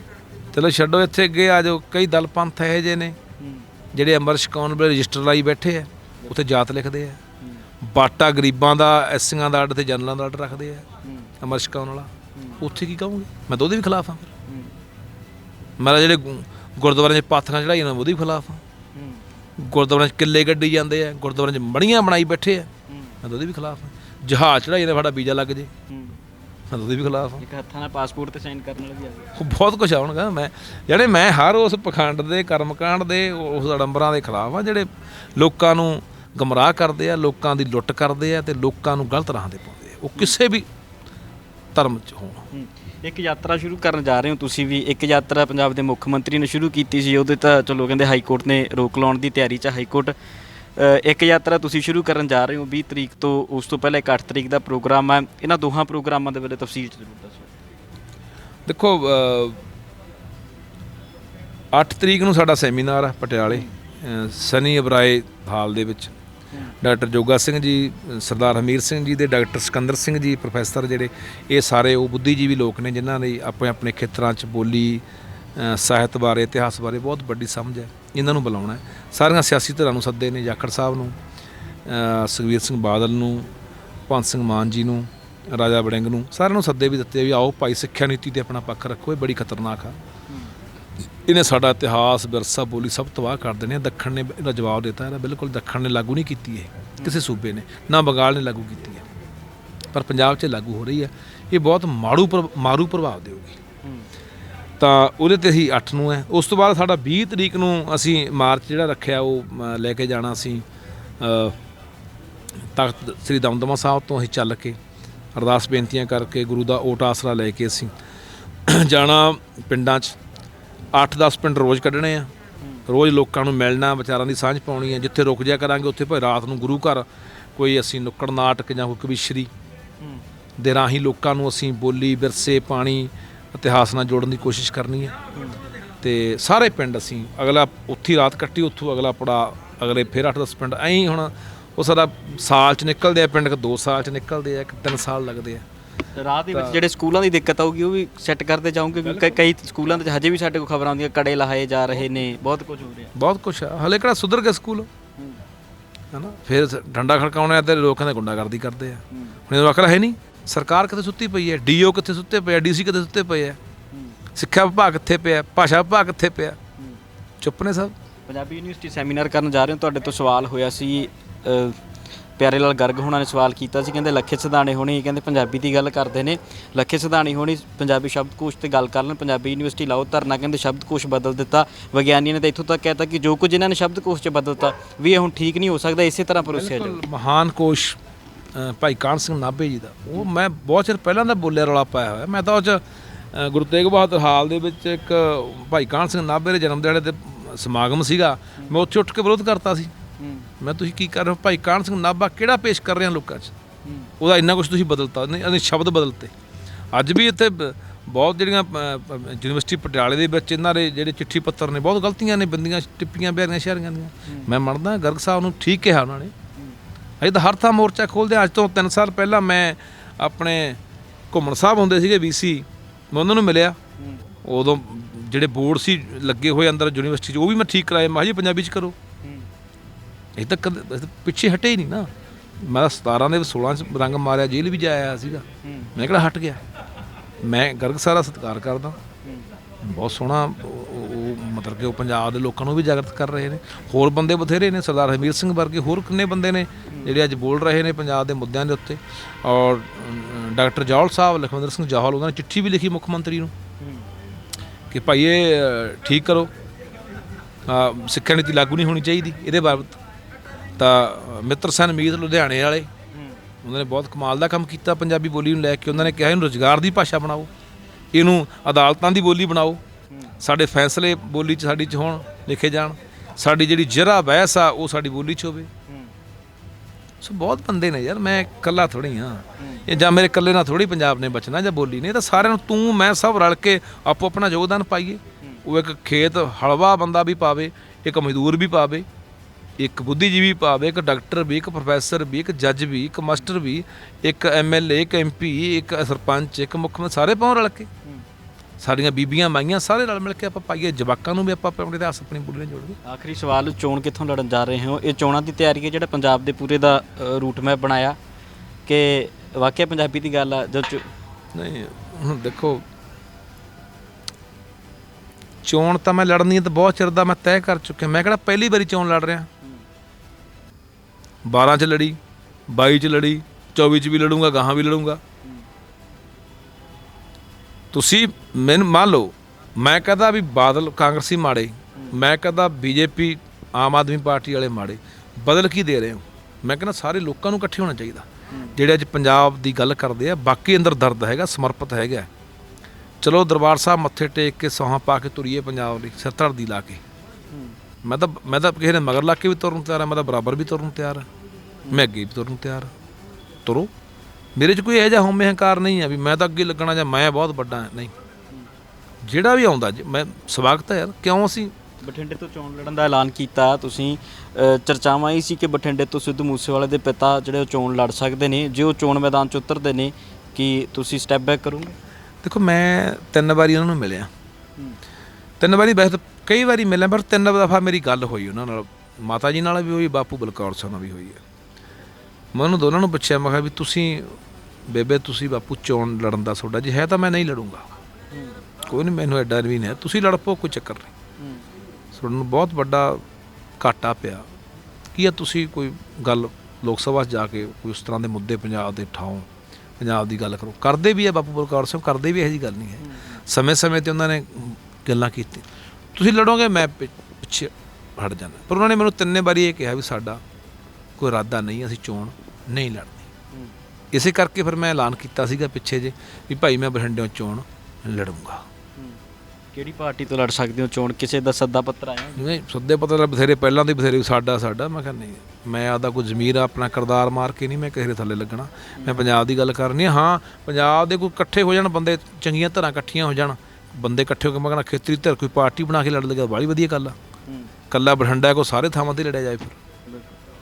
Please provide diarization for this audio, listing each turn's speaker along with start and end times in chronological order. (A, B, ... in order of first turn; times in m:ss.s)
0:00.5-0:03.2 A
0:03.4-0:03.7 B
0:03.9-0:07.2 A
0:07.8-0:10.8 A
0:11.0-0:11.3 B
0:11.4-0:14.3 A
0:12.3-0:12.6 B
0:14.4-0:14.7 B
0:15.8-0:18.6 A
0:18.9-0:19.2 B
0:19.6-0:22.7 A
0:22.9-0:23.2 B
0:23.2-0:25.7 A
0:25.9-0:26.2 B
0:26.7-0:27.4 A
0:27.4-0:29.3 B
0:29.3-0:40.7 A
0:41.7-0:42.4 A
0:42.5-0:50.1 B
0:50.8-0:57.5 B
0:58.6-0:59.6 A
1:01.7-1:06.1 A
1:06.8-1:15.0 A
1:15.6-1:21.2 A
1:21.8-1:23.5 A
1:24.1-1:30.0 A
1:31.2-1:39.1 A
1:39.9-1:43.6 A
1:44.8-1:50.6 A
1:51.2-1:51.6 A
1:52.7-1:54.8 A
1:55.3-1:57.9 A
1:58.7-2:00.2 A
2:00.9-2:02.3 A
2:02.9-2:09.5 A
2:10.6-2:15.2 A
2:16.0-2:25.6 A
2:26.2-2:33.1 B
2:26.5-2:26.8 A
2:33.1-2:34.9 A
2:36.1-2:43.6 A
2:39.1-2:39.4 B
2:43.9-2:44.2 B
2:44.3-2:46.6 A
2:47.4-2:47.9 A
2:48.3-2:51.8 B
2:52.4-3:07.0 B
3:06.5-3:08.0 A
3:08.5-3:19.9 A
3:20.2-3:20.5 B
3:20.6-3:23.5 A
3:23.8-3:24.1 B
3:24.2-3:26.3 A
3:26.9-3:36.3 A
3:37.2-3:40.8 A
3:41.3-3:43.8 A
3:44.0-3:44.2 B
3:44.4-3:48.9 A
3:49.2-3:49.5 B
3:50.4-3:56.6 A
3:55.6-3:55.9 B
3:57.4-3:59.0 A
3:59.8-4:13.5 A
4:13.8-4:14.0 B
4:14.9-4:16.5 A
4:17.7-4:20.0 A
4:20.8-4:22.9 A
4:23.1-4:23.4 B
4:23.6-4:27.5 A
4:28.1-4:29.8 A
4:30.4-4:35.7 A
4:37.2-4:49.0 A
4:39.6-4:39.8 B
4:49.8-4:57.9 A
4:58.8-5:03.0 A
5:03.0-5:08.2 B
5:08.8-5:11.1 B
5:11.5-5:12.8 A
5:15.6-5:19.5 A
5:21.4-5:22.2 A
5:22.7-5:25.2 A
5:27.9-5:42.3 A
5:38.5-5:38.8 B
5:43.2-5:47.0 A
5:47.5-5:47.8 B
5:48.0-5:51.3 A
5:51.9-5:52.9 A
5:53.6-5:53.9 A
5:54.6-5:58.1 A
5:59.2-6:01.7 A
6:02.0-6:12.0 B
6:12.4-6:14.3 A
6:15.6-6:21.4 A
6:22.5-6:27.8 A
6:28.3-6:28.6 B
6:28.8-6:31.1 A
6:31.4-6:31.6 B
6:32.1-6:33.2 A
6:33.8-6:34.5 A
6:35.1-6:39.5 A
6:40.0-6:50.4 A
6:43.0-6:43.4 B
6:51.2-6:53.2 A
6:54.1-6:58.6 A
6:59.7-7:02.4 B
7:02.4-7:17.2 A
7:17.9-7:19.8 A
7:20.0-7:20.3 B